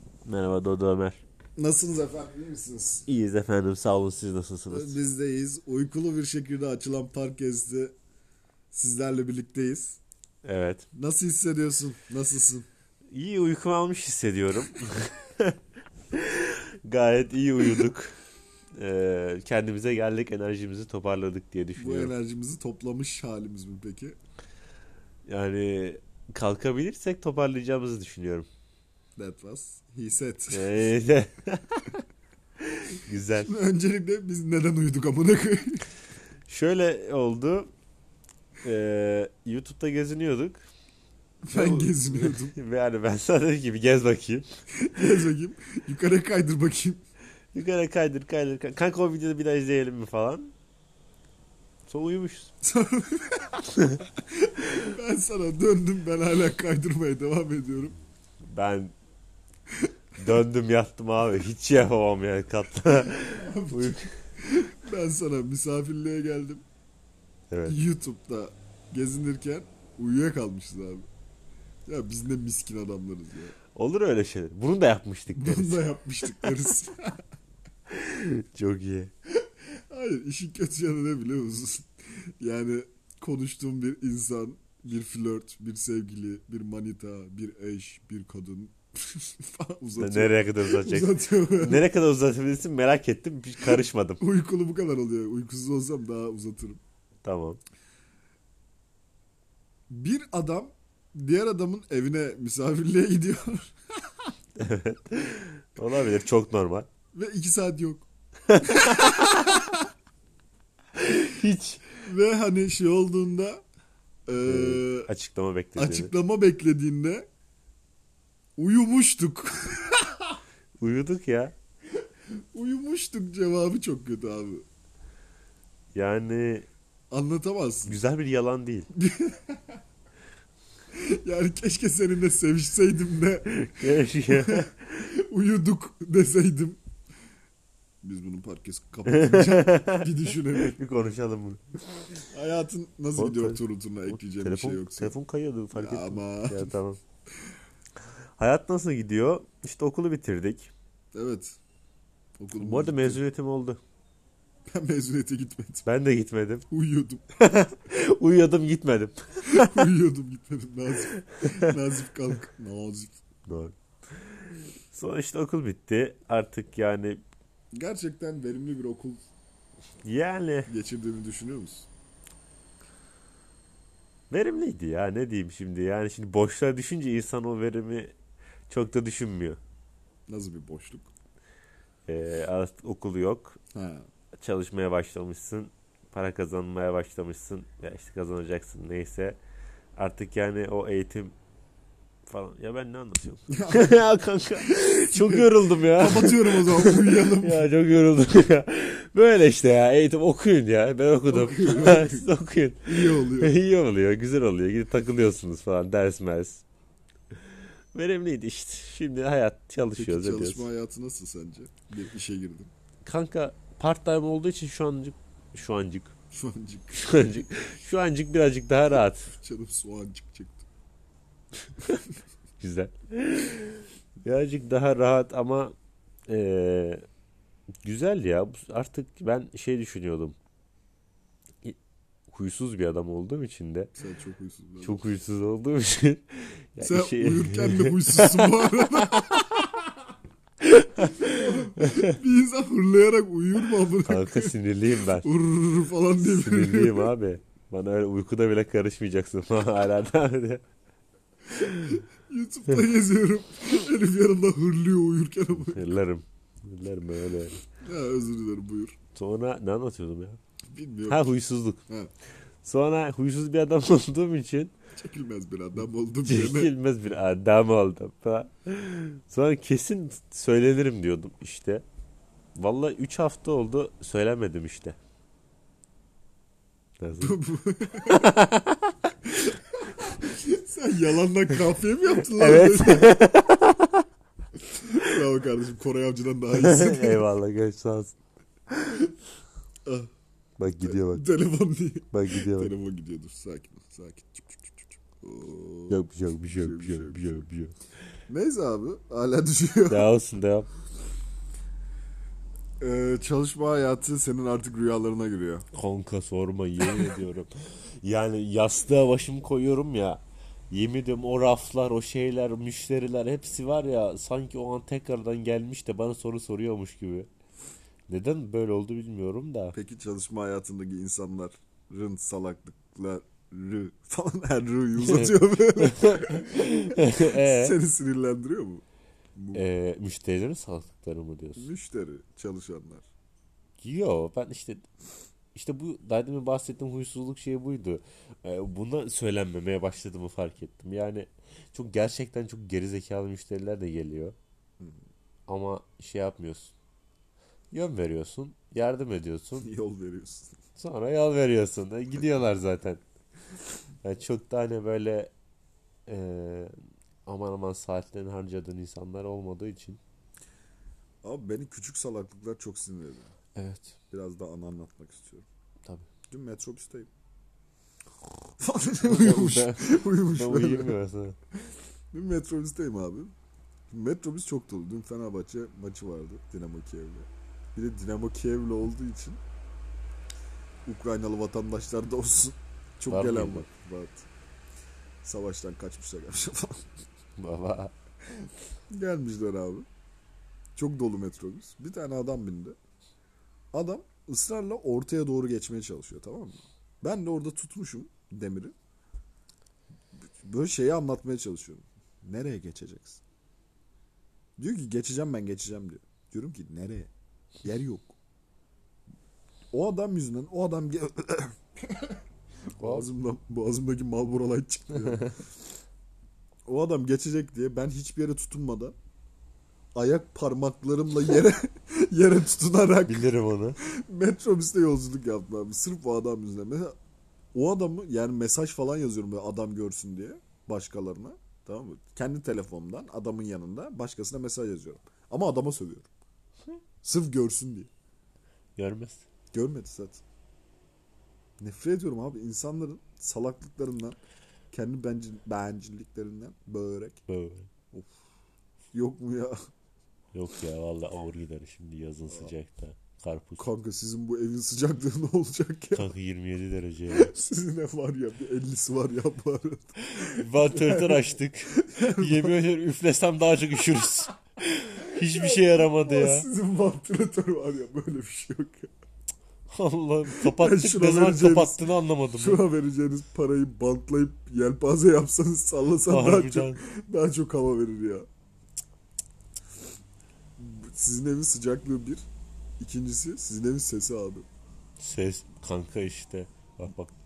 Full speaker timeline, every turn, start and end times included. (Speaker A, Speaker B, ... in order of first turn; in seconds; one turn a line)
Speaker A: 0.2-1.2
Speaker B: 1.6-3.1
Speaker A: 3.1-5.0
Speaker B: 4.7-7.9
Speaker B: 8.7-10.0
Speaker A: 10.4-10.8
Speaker B: 10.9-12.7
Speaker A: 13.1-15.6
Speaker A: 16.1-18.1
Speaker A: 18.8-22.1
Speaker B: 21.8-24.2
Speaker A: 25.2-28.5
Speaker B: 29.1-30.9
Speaker A: 30.5-31.8
Speaker A: 32.8-33.5
Speaker B: 33.3-35.8
Speaker A: 36.5-37.7
Speaker A: 38.6-40.6
Speaker B: 41.4-42.5
Speaker A: 41.5-44.5
Speaker B: 44.8-47.0
Speaker A: 47.5-50.5
Speaker A: 51.9-52.5
Speaker B: 52.6-53.6
Speaker A: 53.7-54.0
Speaker B: 54.4-58.0
Speaker A: 58.5-58.9
Speaker A: 60.2-64.1
Speaker B: 62.9-66.6
Speaker A: 67.5-67.8
Speaker B: 67.7-71.1
Speaker B: 71.9-73.5
Speaker A: 73.7-75.9
Speaker B: 75.3-77.2
Speaker A: 77.9-79.1
Speaker B: 79.9-91.9
Speaker A: 90.0-94.2
Speaker B: 93.6-96.8
Speaker A: 97.2-97.6
Speaker B: 99.9-103.8
Speaker A: 104.6-106.9
Speaker B: 107.1-108.1
Speaker A: 108.5-109.3
Speaker B: 108.6-109.8
Speaker A: 111.0-111.8
Speaker B: 112.0-113.6
Speaker B: 114.3-115.1
Speaker A: 114.4-116.1
Speaker B: 115.8-117.2
Speaker B: 118.6-120.3
Speaker A: 120.8-121.5
Speaker B: 122.5-124.7
Speaker A: 125.9-126.7
Speaker B: 127.1-128.0
Speaker A: 127.9-128.9
Speaker B: 128.9-129.6
Speaker B: 130.9-133.5
Speaker A: 133.5-134.9
Speaker B: 134.3-136.8
Speaker B: 138.0-140.8
Speaker A: 139.1-142.0
Speaker B: 142.3-145.2
Speaker A: 143.2-147.0
Speaker B: 145.7-146.7
Speaker A: 148.4-150.7
Speaker B: 151.1-151.6
Speaker B: 152.4-153.2
Speaker A: 152.6-153.8
Speaker B: 154.7-155.8
Speaker A: 155.8-156.7
Speaker B: 156.7-157.2
Speaker A: 157.4-159.9
Speaker B: 159.5-163.2
Speaker A: 163.5-163.7
Speaker A: 164.9-167.2
Speaker B: 167.7-169.2
Speaker A: 170.0-170.7
Speaker B: 170.7-171.9
Speaker A: 174.3-178.1
Speaker A: 178.7-179.6
Speaker B: 180.3-181.1
Speaker A: 182.1-183.6
Speaker B: 183.7-184.1
Speaker A: 184.4-189.4
Speaker A: 189.9-191.3
Speaker A: 192.3-206.6
Speaker B: 193.5-194.0
Speaker B: 194.7-197.8
Speaker B: 201.3-202.3
Speaker B: 202.8-203.6
Speaker A: 207.9-210.7
Speaker B: 209.9-212.7
Speaker A: 213.0-216.1
Speaker B: 216.3-217.4
Speaker A: 216.9-219.3
Speaker B: 219.0-220.7
Speaker A: 222.6-225.7
Speaker A: 226.3-227.0
Speaker A: 227.8-230.3
Speaker A: 232.3-233.9
Speaker B: 233.9-235.1
Speaker A: 234.8-239.7
Speaker B: 236.8-239.4
Speaker A: 240.6-242.2
Speaker B: 241.2-244.5
Speaker A: 244.0-245.3
Speaker B: 245.1-247.1
Speaker A: 246.2-250.6
Speaker B: 251.6-255.9
Speaker A: 255.6-257.6
Speaker B: 257.8-258.9
Speaker A: 259.1-260.4
Speaker B: 260.7-261.4
Speaker A: 261.1-261.8
Speaker A: 262.6-264.7
Speaker B: 265.0-266.7
Speaker A: 266.2-271.9
Speaker A: 272.5-275.0
Speaker A: 277.0-277.4
Speaker B: 277.2-278.3
Speaker A: 278.1-278.9
Speaker B: 279.8-283.3
Speaker A: 282.3-284.0
Speaker B: 284.8-287.2
Speaker A: 286.5-288.1
Speaker A: 290.6-291.2
Speaker B: 290.8-297.4
Speaker A: 292.1-292.7
Speaker A: 295.9-297.7
Speaker B: 298.3-300.1
Speaker A: 299.9-300.7
Speaker B: 302.8-305.7
Speaker A: 305.7-317.3
Speaker A: 318.1-319.7
Speaker B: 319.7-328.8
Speaker A: 325.0-327.8
Speaker B: 329.3-329.6
Speaker A: 329.5-331.7
Speaker B: 331.6-333.1
Speaker A: 333.8-334.8
Speaker A: 335.5-344.4
Speaker A: 345.5-346.7
Speaker A: 347.7-349.7
Speaker B: 349.6-350.6
Speaker A: 350.8-353.0
Speaker A: 354.0-355.3
Speaker A: 356.1-356.7
Speaker A: 357.2-360.0
Speaker B: 361.2-363.3
Speaker A: 363.6-363.9
Speaker B: 364.1-365.4
Speaker B: 366.3-367.1
Speaker B: 368.6-370.9
Speaker A: 369.0-371.4
Speaker B: 372.1-373.3
Speaker B: 373.9-379.4
Speaker B: 380.9-384.2
Speaker A: 383.1-383.7
Speaker B: 385.2-386.9
Speaker A: 387.4-387.9
Speaker B: 388.9-389.9
Speaker B: 390.8-392.8
Speaker B: 393.7-398.7
Speaker B: 400.4-403.2
Speaker B: 404.6-407.1
Speaker B: 407.6-408.1
Speaker B: 409.7-411.6
Speaker A: 412.8-413.1
Speaker B: 412.8-415.3
Speaker A: 414.9-415.3
Speaker B: 416.7-418.9
Speaker B: 419.9-423.3
Speaker A: 423.1-423.8
Speaker B: 423.8-426.9
Speaker B: 427.5-436.1
Speaker B: 437.0-437.9
Speaker A: 438.8-439.2
Speaker B: 439.5-440.2
Speaker B: 441.6-444.2
Speaker B: 444.7-447.2
Speaker A: 447.3-447.7
Speaker B: 448.9-449.6
Speaker A: 450.3-453.7
Speaker B: 453.6-456.1
Speaker A: 455.9-457.3
Speaker B: 457.1-462.6
Speaker A: 460.0-466.4
Speaker B: 465.1-468.9
Speaker A: 469.7-472.6
Speaker B: 470.2-478.2
Speaker A: 476.0-476.8
Speaker B: 480.6-482.2
Speaker B: 482.8-484.5
Speaker A: 485.0-487.1